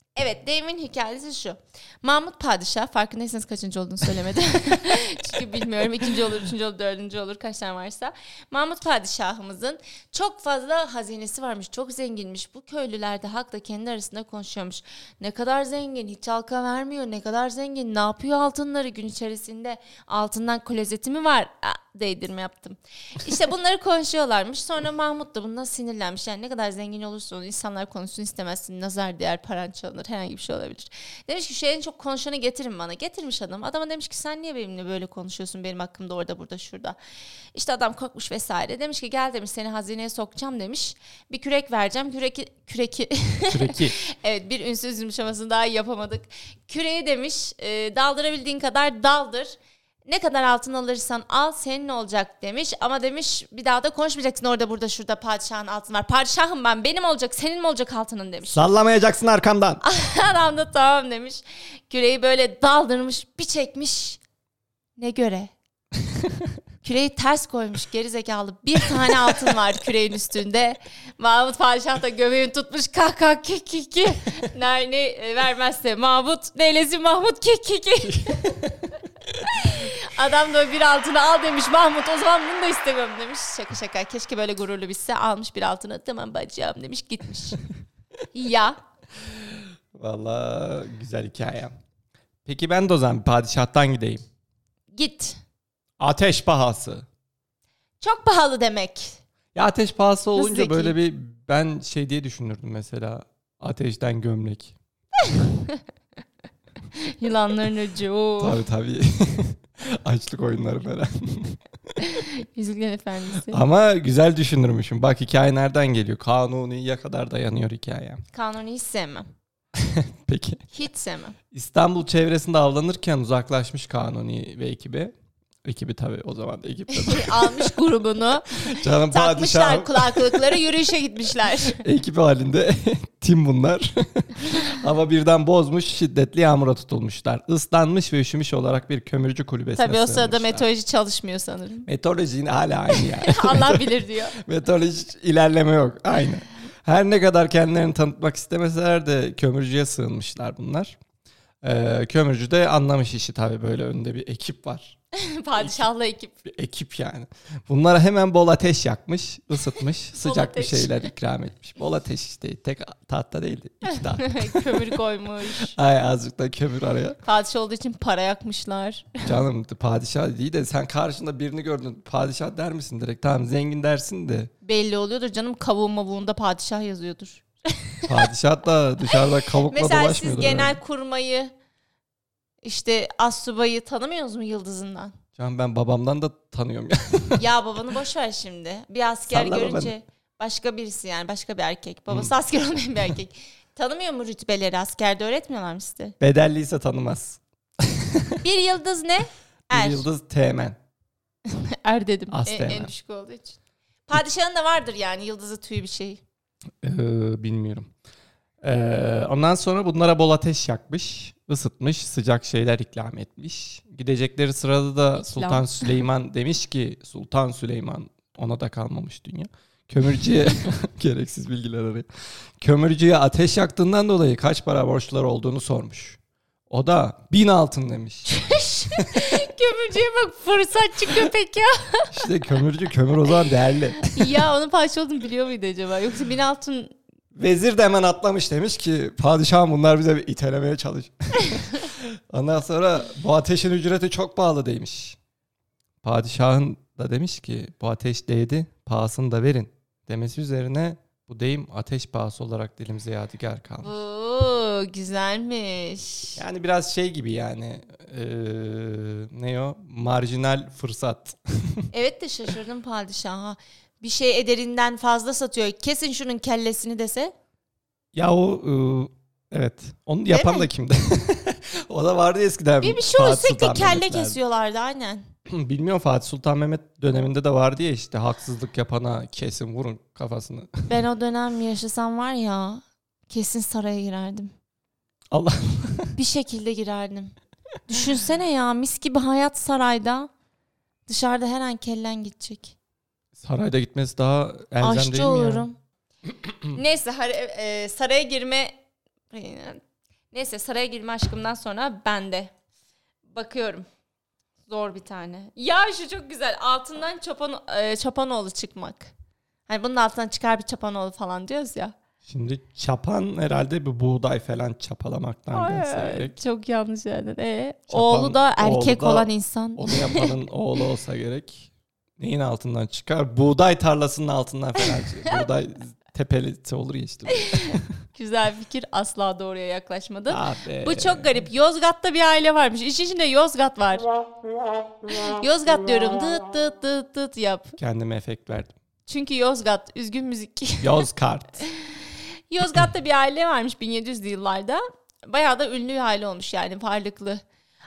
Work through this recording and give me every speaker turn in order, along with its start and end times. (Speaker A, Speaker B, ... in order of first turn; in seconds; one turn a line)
Speaker A: 0.2-37.0
Speaker A: 37.5-49.5
Speaker B: 43.5-44.0
Speaker A: 50.1-58.6
Speaker B: 58.5-59.8
Speaker A: 59.8-64.2
Speaker A: 65.0-65.5
Speaker A: 66.8-78.6
Speaker B: 78.3-78.9
Speaker A: 79.4-87.6
Speaker A: 88.3-88.8
Speaker B: 89.4-91.7
Speaker B: 92.4-94.2
Speaker A: 94.9-95.4
Speaker B: 96.0-97.1
Speaker A: 98.0-99.2
Speaker B: 99.5-104.8
Speaker A: 100.3-101.0
Speaker A: 105.2-105.8
Speaker A: 106.9-108.6
Speaker B: 108.4-111.6
Speaker A: 112.0-113.6
Speaker B: 113.5-118.2
Speaker A: 118.3-119.3
Speaker B: 119.7-120.6
Speaker A: 120.7-121.4
Speaker B: 121.5-127.8
Speaker A: 126.9-131.8
Speaker B: 128.5-130.6
Speaker B: 131.6-140.7
Speaker A: 139.8-141.9
Speaker B: 141.8-143.9
Speaker A: 142.9-144.4
Speaker B: 144.4-151.0
Speaker B: 151.6-155.0
Speaker A: 155.1-156.3
Speaker B: 156.4-165.0
Speaker A: 160.2-161.1
Speaker A: 163.9-165.8
Speaker B: 165.6-167.2
Speaker A: 167.2-169.3
Speaker B: 169.2-174.5
Speaker A: 174.6-178.1
Speaker B: 178.1-180.8
Speaker A: 179.5-181.5
Speaker A: 182.6-185.2
Speaker B: 185.4-187.4
Speaker A: 187.4-196.2
Speaker B: 189.3-189.9
Speaker B: 196.2-198.4
Speaker A: 198.4-200.1
Speaker B: 199.7-200.8
Speaker A: 201.4-206.2
Speaker B: 202.3-202.9
Speaker B: 206.8-207.9
Speaker B: 208.6-222.1
Speaker A: 215.2-215.7
Speaker B: 222.6-226.2
Speaker B: 226.7-228.3
Speaker A: 228.3-232.1
Speaker B: 228.9-229.2
Speaker B: 232.1-234.5
Speaker A: 234.0-236.9
Speaker B: 237.3-245.2
Speaker B: 246.0-253.9
Speaker A: 253.8-256.4
Speaker B: 256.4-261.9
Speaker A: 261.9-267.3
Speaker B: 268.1-274.4
Speaker A: 270.3-270.7
Speaker A: 272.8-275.3
Speaker B: 275.5-280.9
Speaker A: 280.9-284.5
Speaker B: 285.3-286.1
Speaker A: 286.2-287.3
Speaker A: 287.9-290.3
Speaker A: 291.1-292.7
Speaker B: 293.4-295.7
Speaker A: 294.8-295.8
Speaker B: 296.4-296.7
Speaker A: 296.7-298.7
Speaker A: 299.3-302.5
Speaker A: 303.3-303.9
Speaker A: 304.7-309.1
Speaker A: 309.7-311.9
Speaker B: 312.2-316.4
Speaker A: 315.5-320.3
Speaker B: 317.9-327.9
Speaker A: 327.3-334.1
Speaker B: 330.3-331.4
Speaker A: 335.1-337.8
Speaker B: 337.8-338.7
Speaker A: 339.1-341.1
Speaker B: 340.8-341.6
Speaker A: 341.6-347.4